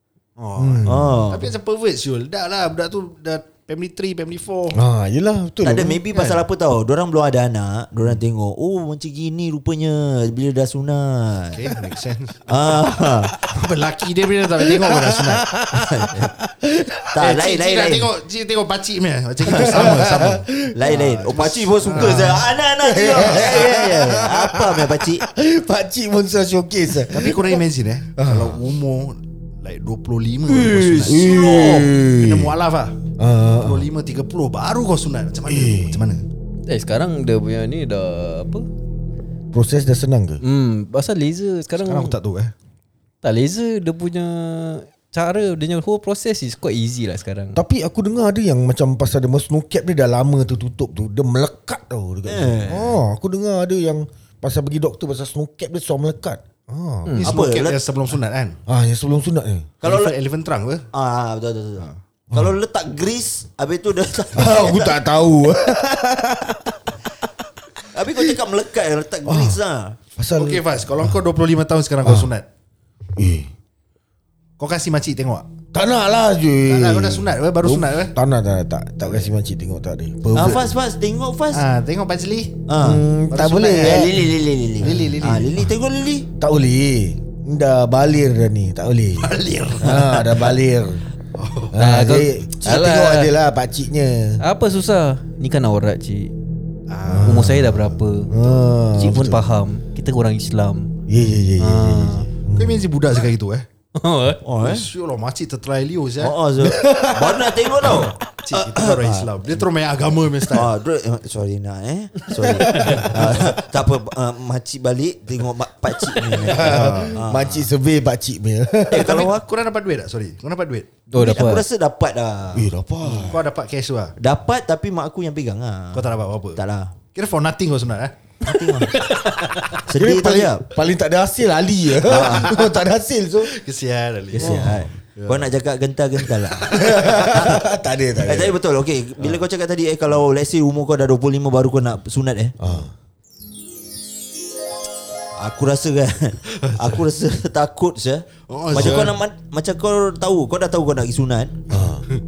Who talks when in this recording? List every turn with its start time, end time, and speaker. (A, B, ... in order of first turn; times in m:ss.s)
0:00.4-0:04.8 A
0:00.6-0:01.3 B
0:00.8-0:01.5 C
0:04.7-0:06.0 B
0:05.6-0:11.7 C
0:06.1-0:06.4 A
0:11.5-0:12.6 A
0:12.5-0:13.4 C
0:13.4-0:15.5 A
0:14.7-0:17.1 B
0:15.7-0:16.3 C
0:17.1-0:18.1 C
0:17.2-0:22.6 A
0:19.4-0:20.7 B
0:19.5-0:20.0 C
0:20.7-0:25.2 C
0:21.9-0:27.6 B
0:23.1-0:23.7 A
0:27.1-0:33.0 A
0:28.2-0:28.6 B
0:30.5-0:31.8 C
0:31.1-0:32.5 B
0:33.2-0:33.9 B
0:33.5-0:36.2 A
0:35.5-0:36.0 B
0:36.7-0:38.7 D
0:39.5-0:40.4 B
0:40.4-0:42.1 D
0:41.8-0:42.5 A
0:43.2-0:47.6 D
0:47.5-0:57.2 B
0:52.2-0:53.0 C
0:57.2-0:58.6 A
0:57.2-0:57.8 C
0:58.7-0:59.7 B
0:59.8-1:00.1 C
0:59.8-1:00.9 A
1:00.9-1:05.0 C
1:04.3-1:06.8 B
1:07.9-1:10.0 C
1:09.2-1:09.6 B
1:10.2-1:11.1 B
1:10.4-1:12.4 A
1:12.0-1:12.3 B
1:13.2-1:13.5 B
1:14.6-1:15.4 A
1:15.7-1:20.7 B
1:16.6-1:18.1 A
1:20.3-1:21.6 C
1:21.5-1:22.6 A
1:22.7-1:23.0 C
1:22.8-1:24.1 B
1:23.3-1:25.6 A
1:23.8-1:26.3 C
1:26.4-1:31.0 B
1:29.2-1:30.5 A
1:31.3-1:31.8 A
1:31.7-1:34.4 B
1:31.8-1:33.3 D
1:34.4-1:36.3 D
1:36.9-1:37.5 A
1:37.1-1:39.4 B
1:37.2-1:38.3 D
1:38.9-1:40.9 D
1:41.1-1:42.9 B
1:41.6-1:42.3 D
1:42.5-1:43.6 A
1:44.0-1:44.4 D
1:44.4-1:44.9 C
1:44.6-1:46.4 A
1:46.2-1:49.3 C
1:46.6-1:48.1 B
1:47.8-1:50.7 A
1:50.5-1:57.6 C
1:52.6-1:53.0 B
1:52.7-1:53.0 D
1:52.7-1:53.3 A
1:56.3-1:59.2 B
1:56.4-1:57.2 A
1:58.9-1:59.4 C
1:58.9-2:00.9 A
2:01.1-2:01.6 D
2:01.1-2:03.2 C
2:02.5-2:03.4 B
2:03.0-2:04.1 A
2:04.2-2:06.9 C
2:05.9-2:08.2 A
2:08.4-2:09.1 C
2:09.0-2:09.6 D
2:09.7-2:10.6 C
2:09.9-2:13.5 B
2:12.0-2:12.6 C
2:12.1-2:12.7 A
2:13.4-2:15.5 A
2:14.3-2:17.6 C
2:14.3-2:14.8 B
2:16.5-2:17.2 A
2:16.7-2:18.6 B
2:18.2-2:22.5 C
2:22.6-2:22.9 B
2:25.4-2:31.7 C
2:26.6-2:27.0 A
2:28.5-2:29.2 A
2:28.8-2:29.0 B
2:31.7-2:32.0 B